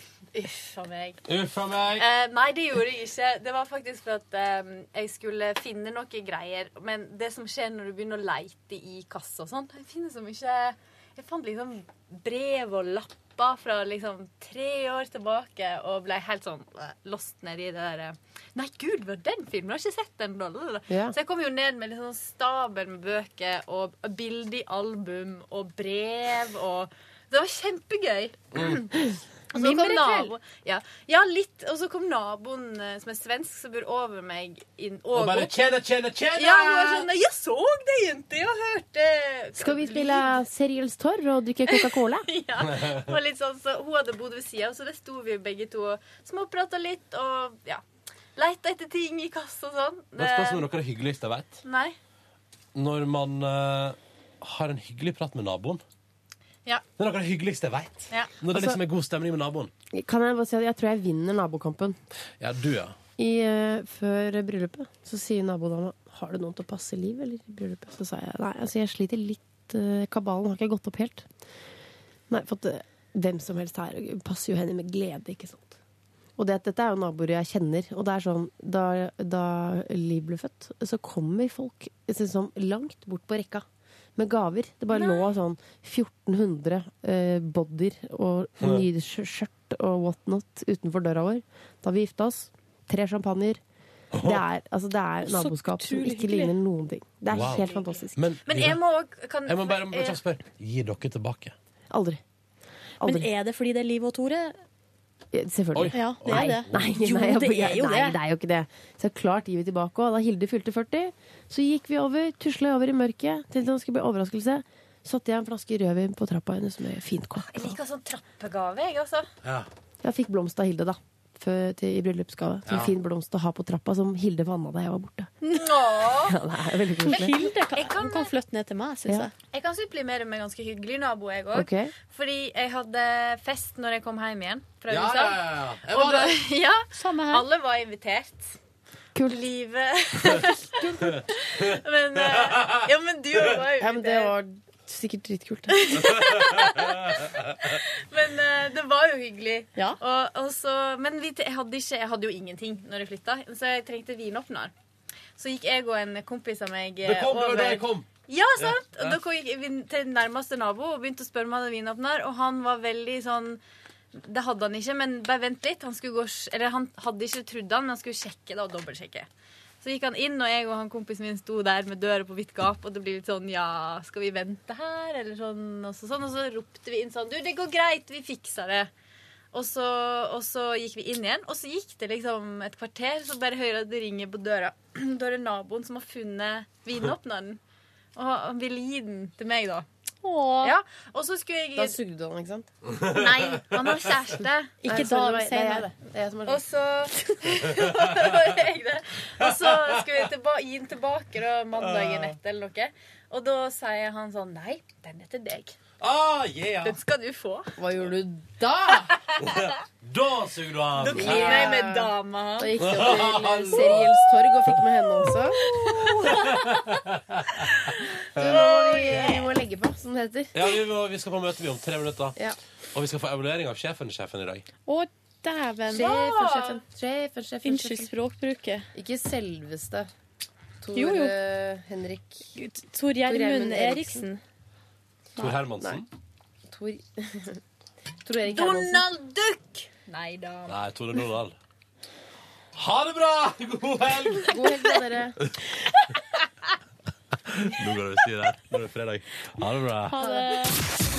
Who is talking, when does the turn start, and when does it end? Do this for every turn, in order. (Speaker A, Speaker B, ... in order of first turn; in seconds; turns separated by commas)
Speaker A: 0.3-1.2, Speaker B: 1.3-2.0, Speaker A: 1.9-28.9, Speaker C: 20.9-21.1, Speaker A: 29.5-35.7, Speaker D: 29.5-30.3, Speaker C: 29.6-30.0, Speaker B: 35.1-37.1, Speaker A: 36.3-40.4, Speaker C: 39.5-42.3, Speaker A: 41.7-47.8, Speaker B: 42.6-43.1, Speaker A: 48.4-50.7, Speaker B: 50.2-51.6, Speaker A: 51.6-52.0, Speaker B: 52.7-55.8, Speaker B: 57.0-59.7, Speaker C: 59.9-62.0, Speaker B: 62.4-62.9, Speaker C: 63.2-71.3, Speaker C: 72.3-75.8, Speaker C: 76.4-83.6, Speaker C: 84.2-93.6, Speaker B: 88.6-88.8, Speaker B: 94.1-94.4, Speaker C: 94.2-98.2, Speaker D: 95.2-96.5, Speaker B: 97.3-98.8, Speaker A: 97.3-100.2, Speaker B: 99.5-101.5, Speaker C: 101.9-102.2, Speaker C: 103.0-103.3, Speaker D: 103.0-104.5, Speaker C: 105.3-117.8, Speaker B: 105.7-106.9, Speaker D: 105.9-108.2, Speaker A: 117.4-119.3, Speaker B: 119.4-119.7, Speaker C: 120.0-125.3, Speaker B: 122.7-122.9, Speaker A: 125.5-126.4, Speaker C: 126.1-127.5, Speaker D: 127.0-129.3, Speaker A: 127.7-128.3, Speaker A: 129.4-138.6, Speaker C: 131.5-131.9, Speaker B: 134.9-136.4, Speaker D: 136.9-137.4, Speaker C: 139.1-139.4, Speaker A: 139.2-144.3, Speaker C: 140.8-141.1, Speaker B: 142.2-142.8, Speaker C: 143.8-145.9, Speaker A: 145.7-154.7, Speaker A: 155.3-163.6, Speaker B: 157.0-159.2, Speaker A: 164.1-169.3, Speaker A: 169.8-178.9, Speaker A: 179.5-187.6, Speaker A: 188.1-189.8, Speaker D: 190.2-190.7, Speaker A: 190.6-192.0, Speaker C: 191.7-192.7, Speaker B: 193.0-193.7, Speaker A: 193.1-194.8, Speaker D: 194.8-195.9, Speaker C: 194.8-196.6, Speaker A: 196.4-205.8, Speaker B: 199.4-200.3, Speaker B: 201.8-202.3, Speaker B: 206.0-207.0, Speaker A: 206.8-207.7, Speaker C: 207.8-209.1, Speaker B: 208.8-211.9, Speaker A: 209.4-209.7, Speaker A: 211.0-212.7, Speaker C: 211.1-215.6, Speaker B: 212.8-214.2, Speaker A: 215.6-216.7, Speaker B: 216.3-217.6, Speaker B: 218.3-218.6, Speaker C: 218.3-220.5, Speaker A: 218.4-219.4, Speaker B: 220.5-222.4, Speaker B: 222.9-224.6, Speaker D: 224.8-226.2, Speaker C: 225.9-228.1, Speaker A: 225.9-226.8, Speaker D: 227.6-228.9, Speaker C: 228.9-230.1, Speaker C: 230.8-232.4, Speaker D: 230.9-231.3, Speaker D: 232.5-234.4, Speaker C: 233.2-234.3, Speaker B: 235.4-236.1, Speaker C: 236.7-237.6, Speaker C: 238.2-239.1, Speaker A: 238.4-240.8, Speaker B: 240.7-241.5, Speaker B: 242.8-244.5, Speaker C: 244.4-245.4, Speaker B: 247.5-250.2, Speaker D: 250.1-250.8